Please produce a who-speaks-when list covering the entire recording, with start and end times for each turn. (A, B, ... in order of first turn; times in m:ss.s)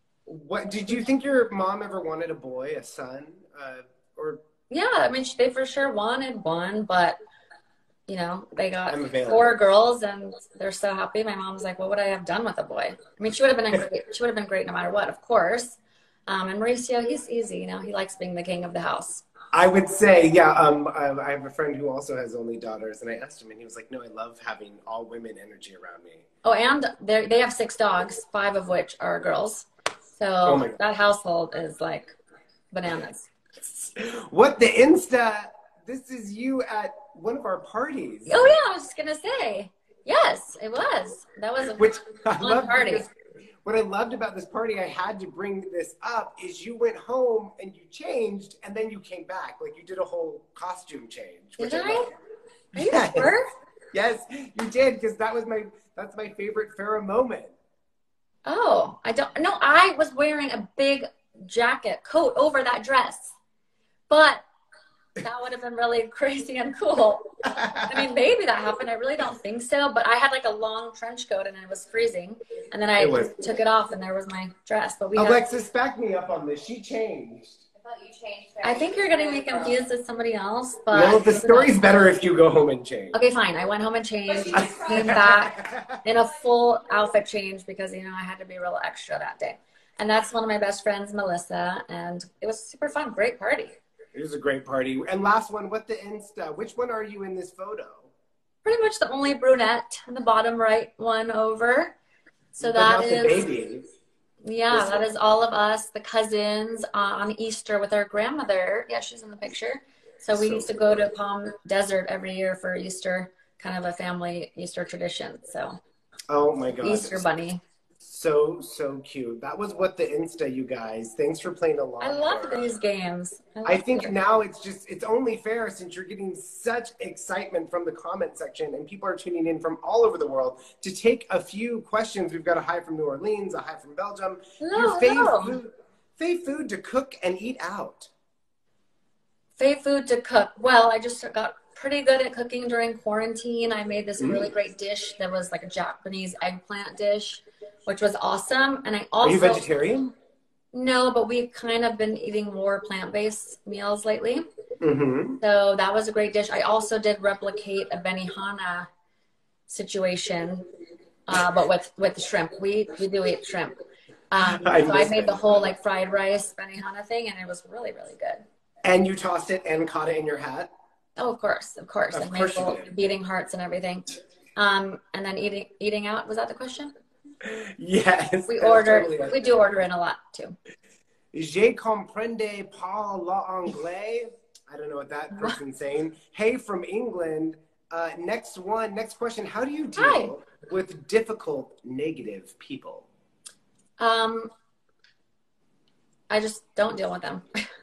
0:00.3-0:04.4 A
0:04.7-0:07.2 B
0:08.1-0:19.2 B
0:08.9-0:09.5 A
0:19.5-0:26.3 A
0:26.4-0:32.2 B
0:30.5-0:30.8 A
0:32.7-0:33.3 B
0:33.7-0:38.5 A
0:38.3-0:43.0 B
0:41.8-0:43.1 A
0:43.6-0:52.1 A
0:51.6-0:52.1 B
0:52.7-0:53.3 A
0:52.7-0:53.5 B
0:53.9-0:57.6 A
0:58.5-1:03.4 B
1:04.1-1:04.4 B
1:05.2-1:15.4 B
1:07.6-1:07.9 A
1:13.0-1:13.4 A
1:15.2-1:17.6 A
1:17.8-1:19.8 C
1:18.6-1:21.8 B
1:20.9-1:23.2 A
1:23.1-1:33.8 B
1:24.5-1:26.0 A
1:34.1-1:38.1 A
1:38.6-1:41.9 B
1:42.6-1:43.4 B
1:42.6-1:43.8 A
1:44.4-1:55.8 B
1:44.7-1:45.0 A
1:50.3-1:51.0 A
1:56.3-1:57.2 A
1:56.8-1:57.6 B
1:58.0-2:02.7 A
2:02.0-2:04.1 B
2:03.6-2:18.1 A
2:14.6-2:15.6 B
2:19.6-2:29.6 B
2:24.2-2:24.5 A
2:29.2-2:30.1 A
2:30.7-2:34.4 B
2:34.8-2:35.4 A
2:35.4-2:38.9 B
2:39.7-2:40.7 B
2:41.3-2:43.8 B
2:44.3-2:48.4 B
2:44.4-2:45.7 A
2:48.8-2:50.7 A
2:51.2-2:56.9 B
2:52.1-2:52.9 A
2:57.4-2:59.4 A
2:58.5-3:00.6 B
3:01.3-3:13.1 A
3:10.0-3:10.3 B
3:14.0-3:14.5 B
3:16.3-3:17.7 B